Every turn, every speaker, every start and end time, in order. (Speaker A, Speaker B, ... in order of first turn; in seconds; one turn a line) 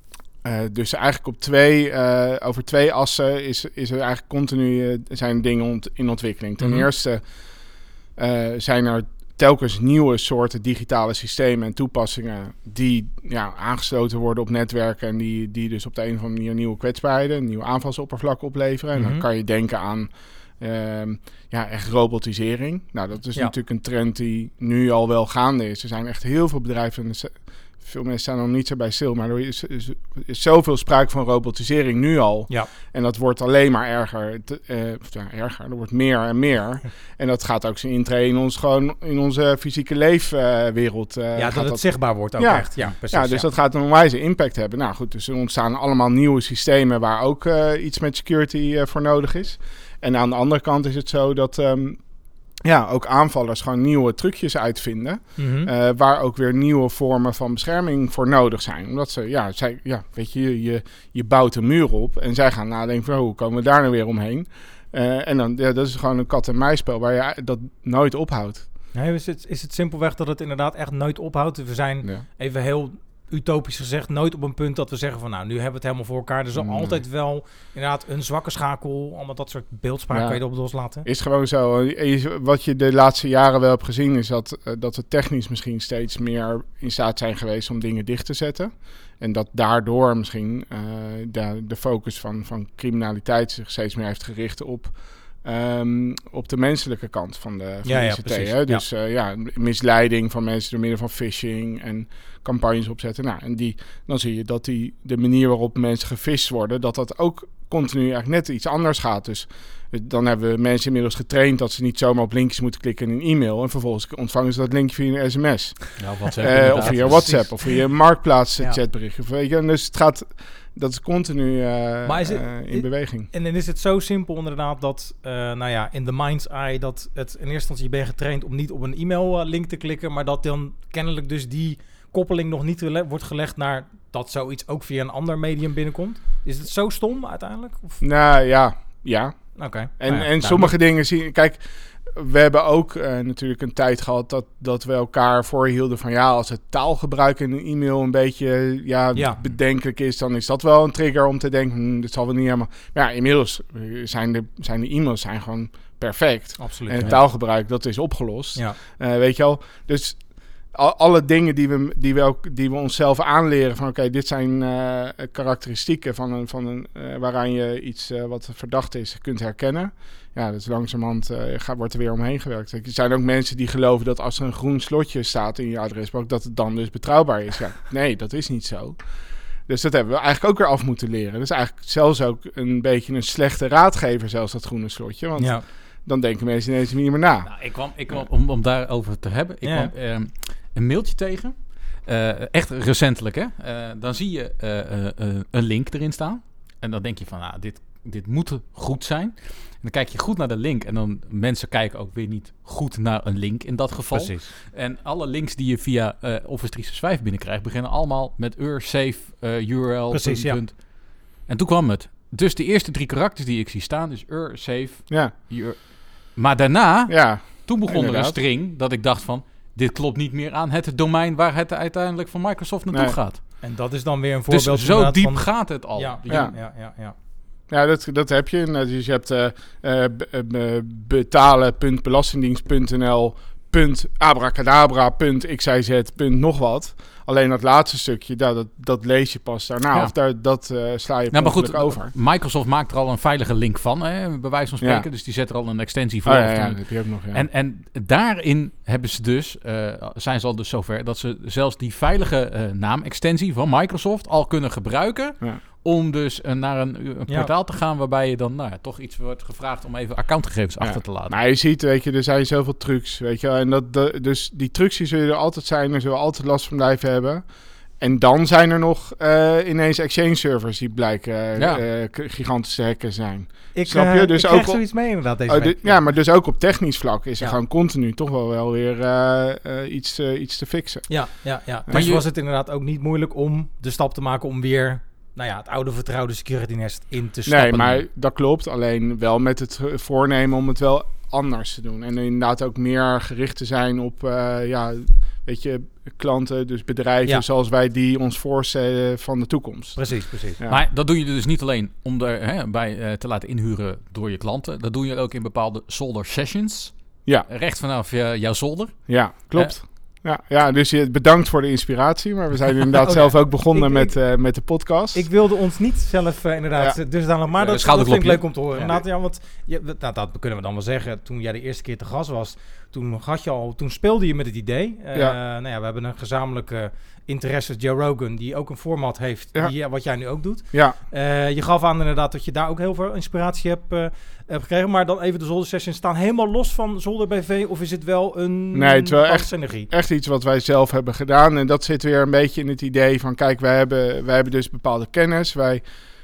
Speaker A: 0.4-52.0
Speaker B: 18.9-19.2
Speaker B: 41.3-43.5
Speaker A: 52.6-68.7
Speaker B: 55.4-55.7
Speaker B: 68.9-81.0
Speaker A: 76.5-77.0
Speaker A: 80.1-123.3
Speaker B: 97.8-98.8
Speaker C: 116.0-117.4
Speaker B: 116.5-118.1
Speaker B: 122.0-138.0
Speaker A: 138.0-187.5
Speaker B: 139.6-140.8
Speaker B: 149.1-149.4
Speaker B: 156.6-157.2
Speaker B: 185.3-185.6
Speaker C: 187.4-223.7
Speaker B: 189.6-189.9
Speaker B: 204.1-204.5
Speaker B: 210.1-210.6
Speaker A: 215.1-215.3
Speaker A: 217.1-218.4
Speaker A: 222.9-223.2
Speaker B: 223.6-227.1
Speaker C: 224.5-226.6
Speaker A: 226.3-226.6
Speaker A: 227.7-242.1
Speaker C: 241.3-261.4
Speaker A: 244.8-245.1
Speaker A: 246.2-247.4
Speaker A: 260.8-282.1
Speaker C: 271.6-271.8
Speaker B: 273.7-276.4
Speaker B: 281.1-288.0
Speaker C: 281.9-282.2
Speaker A: 287.5-300.8
Speaker B: 299.9-300.6
Speaker C: 300.7-309.7
Speaker A: 309.1-315.3
Speaker B: 313.0-339.9
Speaker C: 317.6-319.0
Speaker A: 330.7-331.0
Speaker A: 338.7-345.9